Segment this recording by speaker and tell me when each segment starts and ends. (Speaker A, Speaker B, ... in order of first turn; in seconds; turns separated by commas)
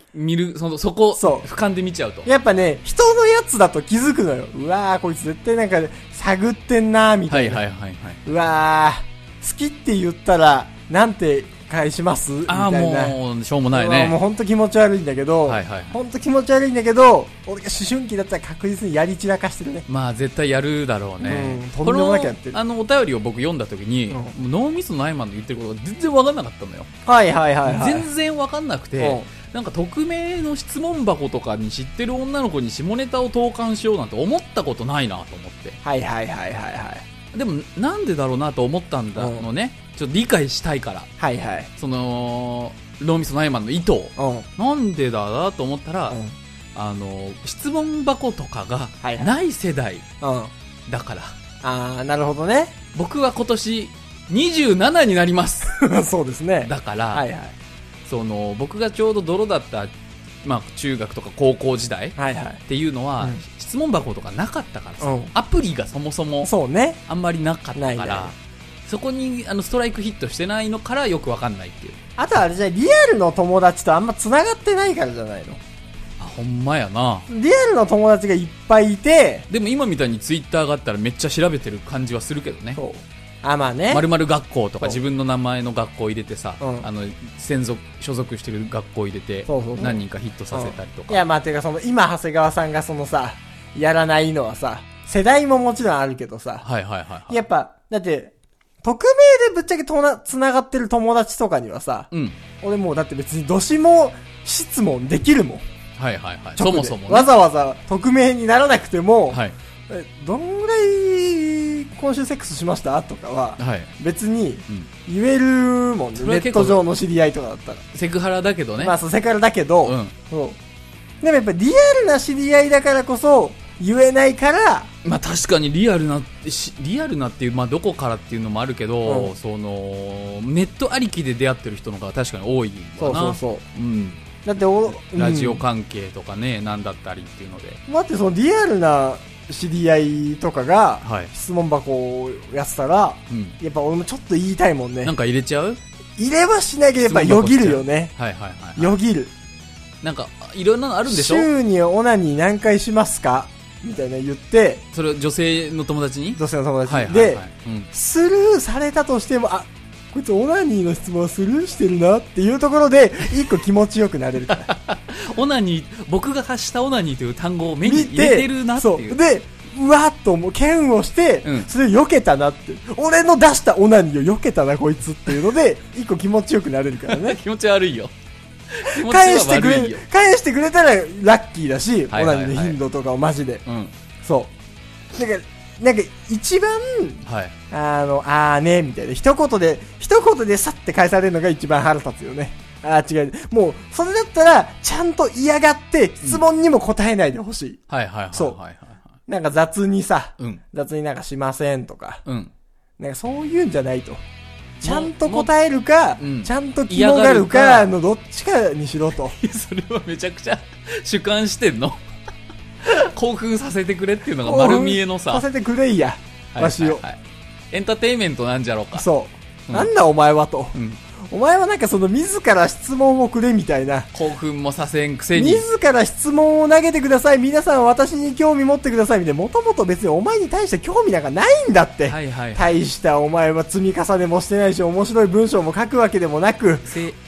Speaker A: 0.1-2.3, Speaker B: 1.1-1.4, Speaker B: 2.2-7.6, Speaker A: 7.3-8.2, Speaker B: 8.2-13.2, Speaker A: 12.5-14.2, Speaker B: 13.7-19.8, Speaker A: 15.5-16.0, Speaker A: 19.9-26.9, Speaker B: 21.2-22.6, Speaker B: 27.1-28.1, Speaker A: 27.6-35.8, Speaker B: 29.0-29.3, Speaker B: 35.8-37.0, Speaker A: 37.3-41.1, Speaker B: 39.2-39.5, Speaker B: 41.2-41.7, Speaker A: 41.8-46.2, Speaker B: 44.2-44.5, Speaker A: 46.8-50.1, Speaker B: 49.0-49.3, Speaker B: 50.2-50.5, Speaker A: 50.9-51.4, Speaker B: 51.6-52.7, Speaker A: 52.9-55.8, Speaker B: 55.7-57.5, Speaker A: 56.6-57.2, Speaker A: 58.1-59.9, Speaker A: 60.4-66.5, Speaker B: 62.2-62.6, Speaker B: 65.0-65.3, Speaker B: 66.4-67.0, Speaker A: 67.1-68.3, Speaker B: 67.8-68.3, Speaker A: 68.9-72.0, Speaker B: 72.2-75.6, Speaker A: 76.2-77.3, Speaker B: 77.3-79.5, Speaker A: 79.5-82.8, Speaker B: 82.8-84.0, Speaker A: 83.9-91.2, Speaker B: 86.6-86.9, Speaker B: 89.5-90.0, Speaker B: 90.5-96.6, Speaker A: 96.6-97.4, Speaker B: 97.3-102.1, Speaker A: 102.1-102.4, Speaker B: 102.6-105.6, Speaker A: 106.0-107.3, Speaker B: 106.6-117.8, Speaker A: 113.6-113.9, Speaker A: 116.2-116.8, Speaker A: 117.9-119.0, Speaker B: 118.8-120.6, Speaker A: 119.8-120.1, Speaker B: 121.2-124.9, Speaker A: 125.0-134.2, Speaker B: 129.1-129.3, Speaker B: 133.0-133.6, Speaker B: 134.4-135.6, Speaker A: 134.8-137.8, Speaker B: 137.9-145.1, Speaker A: 141.0-141.3, Speaker A: 143.3-143.6, Speaker A: 145.0-145.8, Speaker B: 146.2-148.1, Speaker A: 147.0-148.9, Speaker B: 148.8-149.3, Speaker A: 150.0-151.5, Speaker B: 151.1-154.8, Speaker A: 154.9-157.9, Speaker B: 156.4-164.7, Speaker A: 164.5-169.2, Speaker B: 167.8-177.4, Speaker A: 171.4-171.7, Speaker A: 177.1-178.1, Speaker A: 178.7-180.1, Speaker B: 178.8-183.6, Speaker A: 182.1-182.8, Speaker A: 183.7-183.9, Speaker B: 184.2-184.5, Speaker B: 185.1-197.8, Speaker A: 187.2-187.6, Speaker A: 197.9-199.1, Speaker B: 199.3-202.2, Speaker A: 202.2-202.5, Speaker B: 203.0-204.2, Speaker B: 204.8-209.3, Speaker A: 204.8-205.5, Speaker A: 206.2-207.9, Speaker A: 209.2-212.0, Speaker A: 212.8-215.4, Speaker B: 214.4-217.0, Speaker A: 216.6-217.2, Speaker A: 217.7-219.1, Speaker B: 218.9-220.7, Speaker A: 220.7-221.0, Speaker B: 221.3-224.1, Speaker A: 224.1-225.7, Speaker B: 225.3-236.9, Speaker A: 232.1-232.8, Speaker A: 236.8-237.2